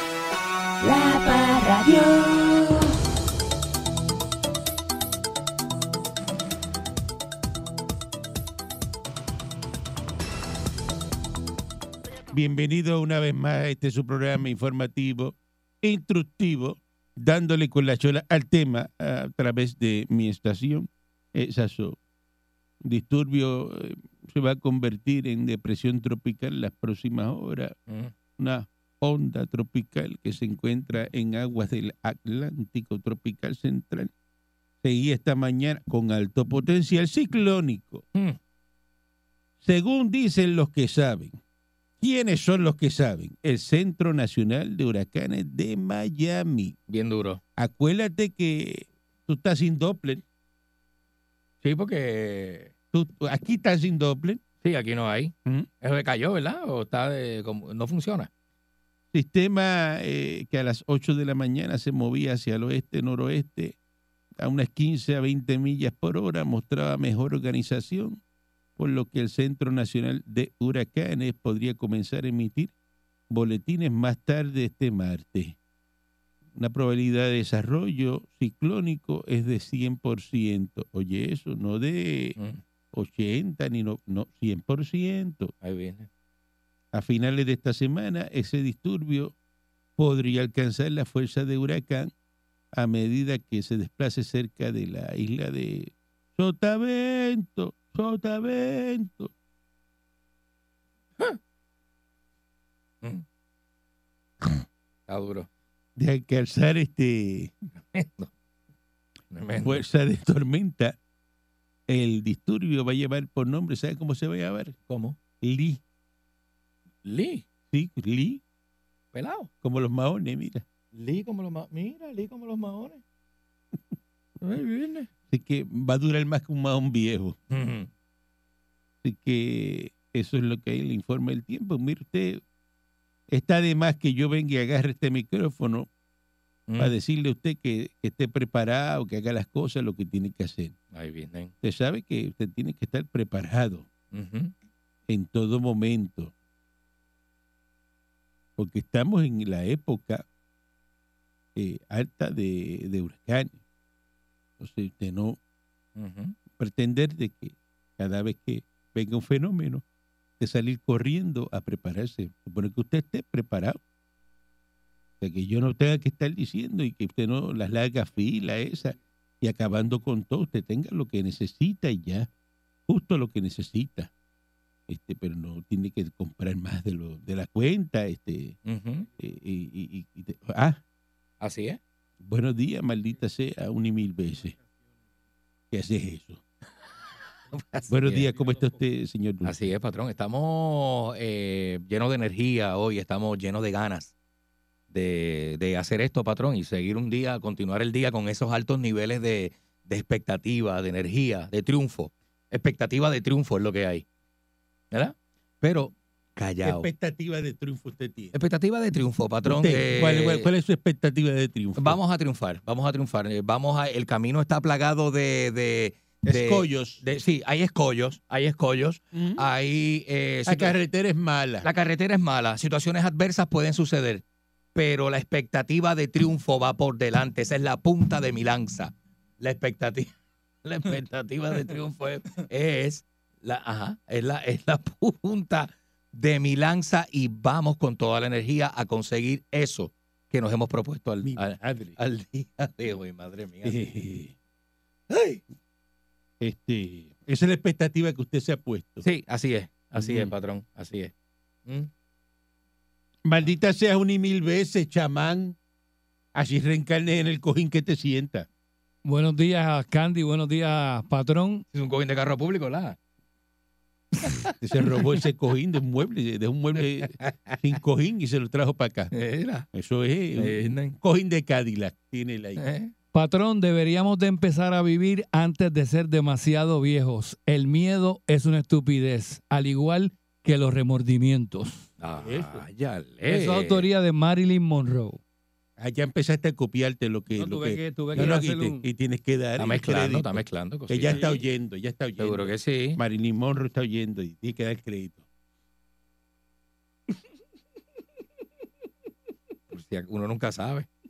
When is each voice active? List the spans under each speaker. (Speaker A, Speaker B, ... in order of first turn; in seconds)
Speaker A: 0.8-2.9
Speaker B: 12.3-22.0, 22.8-27.7, 28.4-34.1, 34.8-38.0, 39.6-41.4, 42.0-46.8, 47.6-50.2, 52.9-54.4, 59.1-63.8, 64.4-68.2, 68.8-72.7, 73.3-75.6, 76.5-82.4, 82.9-85.5, 86.9-89.3, 90.0-92.1, 92.7-99.3, 106.0-107.5, 109.6-110.9, 111.9-114.7, 115.4-115.8, 117.7-118.4, 119.6-120.6, 125.3-127.4, 129.0-132.4, 133.3-135.9, 136.8-140.8, 141.6-143.9, 145.1-146.3, 148.6-150.2, 151.5-153.6, 154.6-155.4, 156.6-159.8, 160.4-163.8, 165.2-172.3, 172.9-174.1, 174.9-178.6, 179.2-180.8, 182.2-184.6, 185.7-186.4, 187.9-189.6, 206.6-208.3, 209.4-212.0, 216.2-217.0, 219.1-219.4, 220.5-221.7, 241.2-242.0, 243.6-244.3, 246.4-249.1, 250.0-250.3, 253.2-255.6, 256.3-258.5, 264.6-269.1, 269.7-272.6, 282.2-282.6, 285.8-295.2
Speaker C: 46.9-47.4, 51.6-52.7, 54.6-58.3, 85.6-86.1, 105.1-105.5, 107.9-108.3, 109.3-109.8, 114.9-115.2, 117.0-117.4, 119.1-119.5, 120.9-123.0, 124.4-125.1, 127.5-127.9, 136.7-136.9, 140.9-141.5, 144.1-144.5, 155.9-156.3, 178.7-179.1, 181.4-181.8, 187.5-188.3, 189.4-194.1, 194.9-204.0, 204.9-206.9, 208.3-210.5, 211.8-220.8, 221.6-224.2, 224.7-230.1, 230.6-243.9, 245.1-245.4, 249.0-251.1, 261.7-262.9, 267.0-267.6, 269.1-269.7, 270.4-270.9, 272.6-272.9, 282.0-283.9, 289.6-291.4, 292.2-293.0, 299.7-300.9
Speaker D: 259.0-261.6, 273.1-281.9, 283.2-285.2, 287.4-288.9